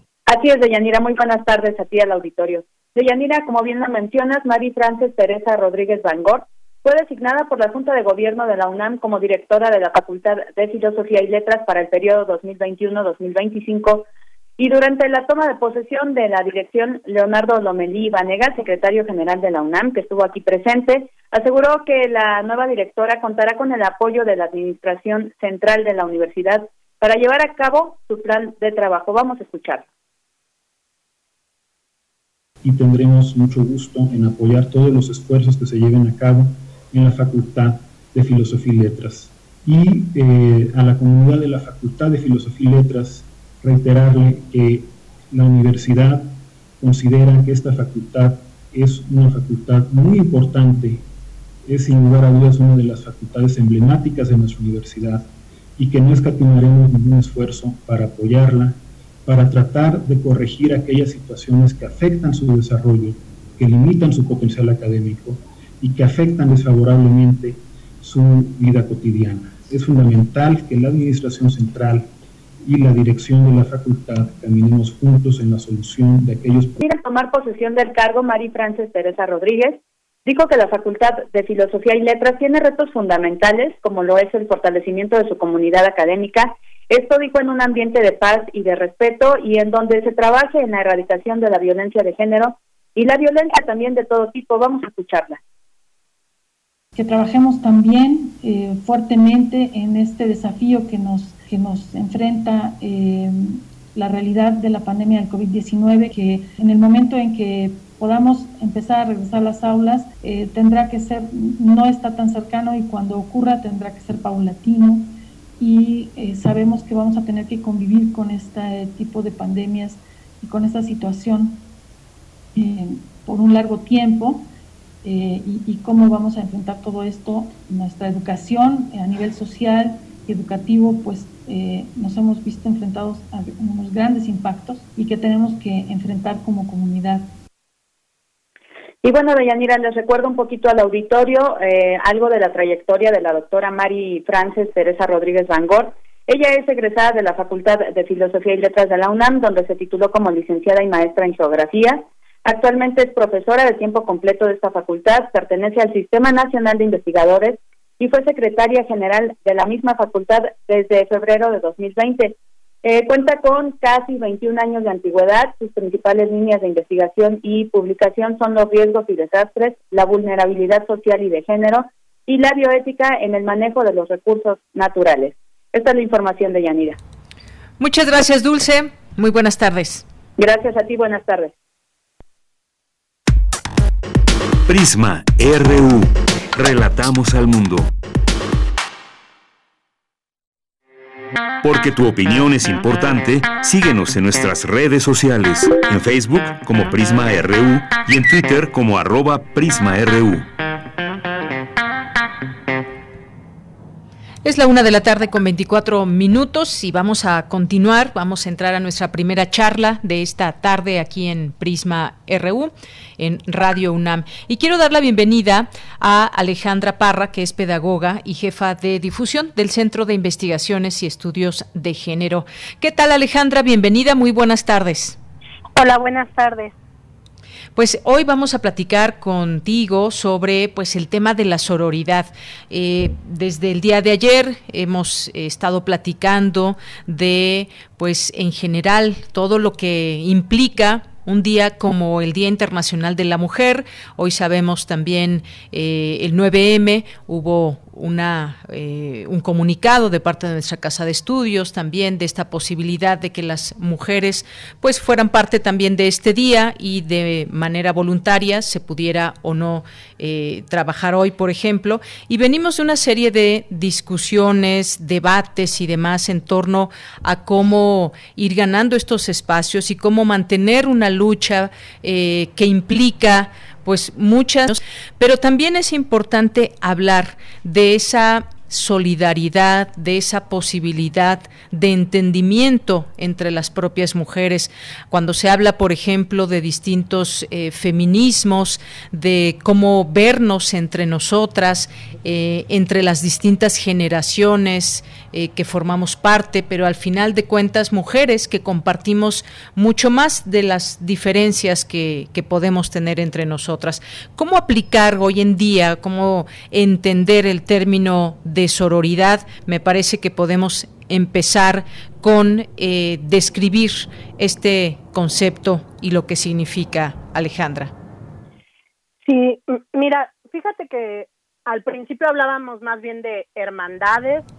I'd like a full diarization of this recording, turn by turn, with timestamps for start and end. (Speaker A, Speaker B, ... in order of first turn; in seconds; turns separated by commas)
Speaker A: 0.3-29.9, Speaker B: 32.6-51.0, Speaker B: 51.7-72.1, Speaker B: 72.6-76.8, Speaker A: 76.8-95.4, Speaker C: 96.9-121.7, Speaker C: 122.5-124.5, Speaker C: 125.0-137.3, Speaker A: 139.0-177.0, Speaker D: 177.8-180.1, Speaker A: 180.4-181.5, Speaker E: 184.7-187.9, Speaker E: 191.6-200.5, Speaker D: 204.4-225.2, Speaker F: 225.7-226.7, Speaker D: 227.8-317.9, Speaker F: 319.2-324.4